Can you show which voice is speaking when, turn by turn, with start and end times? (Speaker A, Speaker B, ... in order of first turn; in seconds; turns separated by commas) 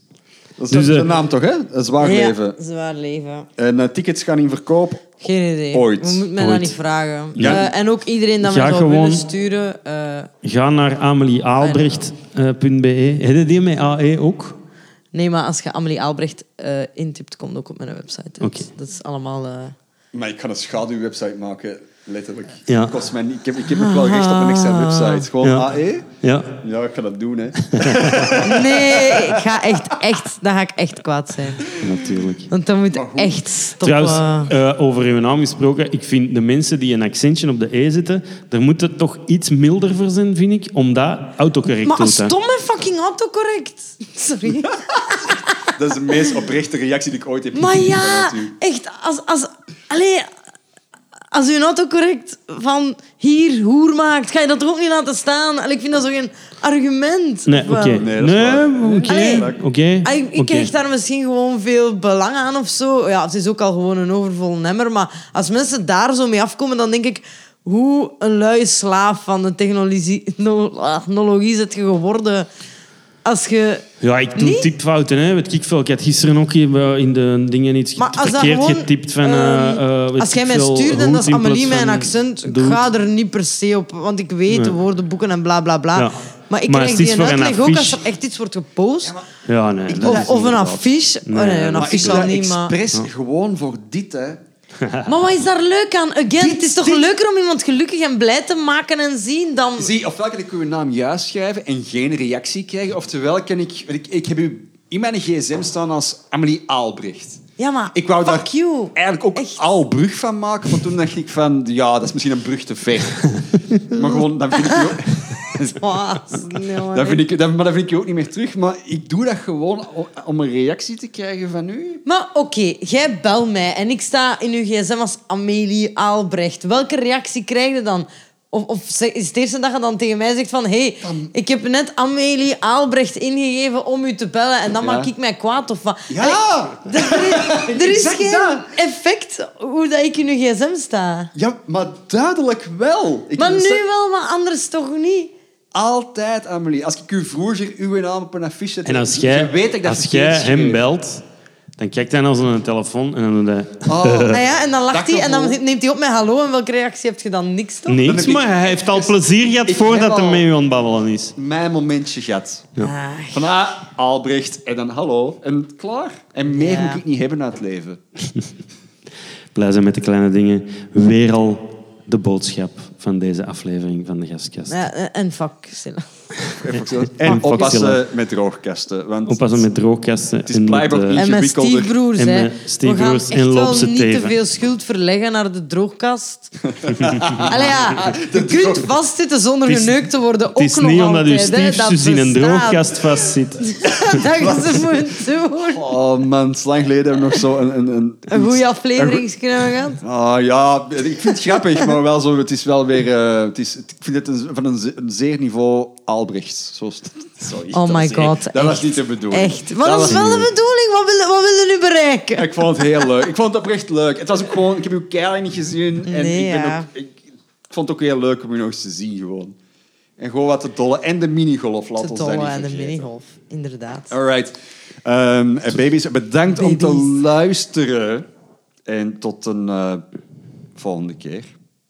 Speaker A: 0.6-2.6, Speaker B: 0.7-1.1, Speaker C: 2.0-3.5, Speaker A: 3.6-5.1, Speaker C: 5.2-10.3, Speaker A: 5.7-6.3, Speaker B: 6.4-6.7, Speaker B: 7.3-7.6, Speaker A: 7.4-7.7, Speaker B: 8.4-9.3, Speaker B: 10.4-14.6, Speaker C: 11.6-12.0, Speaker C: 15.1-19.7, Speaker B: 18.4-18.7, Speaker A: 20.1-29.7, Speaker B: 22.7-23.1, Speaker C: 23.7-25.2, Speaker B: 25.4-25.7, Speaker B: 26.2-26.6, Speaker B: 27.6-28.4, Speaker C: 28.4-31.7, Speaker B: 31.7-32.5, Speaker A: 31.8-32.1, Speaker C: 32.5-34.5, Speaker A: 32.9-33.4, Speaker B: 33.8-42.3, Speaker C: 41.8-45.5, Speaker A: 44.6-48.5, Speaker C: 47.5-50.3, Speaker C: 51.3-58.1, Speaker B: 57.5-60.7, Speaker A: 58.0-59.6, Speaker C: 59.1-59.5, Speaker C: 60.0-72.5, Speaker C: 73.2-73.8, Speaker B: 74.0-82.8, Speaker C: 74.3-74.7, Speaker C: 78.0-89.1, Speaker B: 84.5-84.8, Speaker B: 86.7-88.0, Speaker A: 89.0-89.3, Speaker B: 89.5-92.3, Speaker A: 89.8-90.4, Speaker C: 90.0-92.8, Speaker A: 91.8-94.4, Speaker B: 94.8-95.1, Speaker C: 95.0-99.9, Speaker A: 96.3-97.1, Speaker A: 99.8-107.4, Speaker C: 107.6-109.6, Speaker A: 107.9-122.0, Speaker C: 114.2-117.2, Speaker C: 122.0-141.3, Speaker A: 131.0-131.3, Speaker A: 134.8-135.1, Speaker A: 136.1-138.7, Speaker A: 141.3-143.8, Speaker C: 143.4-145.3, Speaker A: 145.7-150.8, Speaker B: 148.8-151.2, Speaker B: 151.8-154.4, Speaker A: 153.8-155.6, Speaker C: 154.3-158.1, Speaker B: 157.9-161.3, Speaker A: 158.0-160.5, Speaker A: 161.3-162.7, Speaker C: 162.8-163.4, Speaker A: 163.3-168.0, Speaker C: 166.5-167.0, Speaker B: 169.5-174.8, Speaker C: 174.7-176.1, Speaker B: 176.5-178.0, Speaker A: 176.6-179.7, Speaker B: 179.3-181.2, Speaker A: 180.4-182.0, Speaker C: 181.1-186.6, Speaker B: 182.2-184.4, Speaker A: 186.7-188.9, Speaker B: 186.9-187.4, Speaker C: 187.4-193.0, Speaker B: 189.7-194.2, Speaker C: 193.6-195.9, Speaker A: 194.2-194.7, Speaker A: 195.7-199.2, Speaker C: 198.3-200.0, Speaker A: 199.9-210.5, Speaker C: 207.7-213.1, Speaker B: 210.1-210.4, Speaker A: 212.3-219.6, Speaker C: 216.1-216.9, Speaker A: 220.2-223.1, Speaker C: 222.0-224.1, Speaker A: 224.1-228.2, Speaker C: 226.5-227.2, Speaker A: 228.9-230.0, Speaker A: 230.8-231.5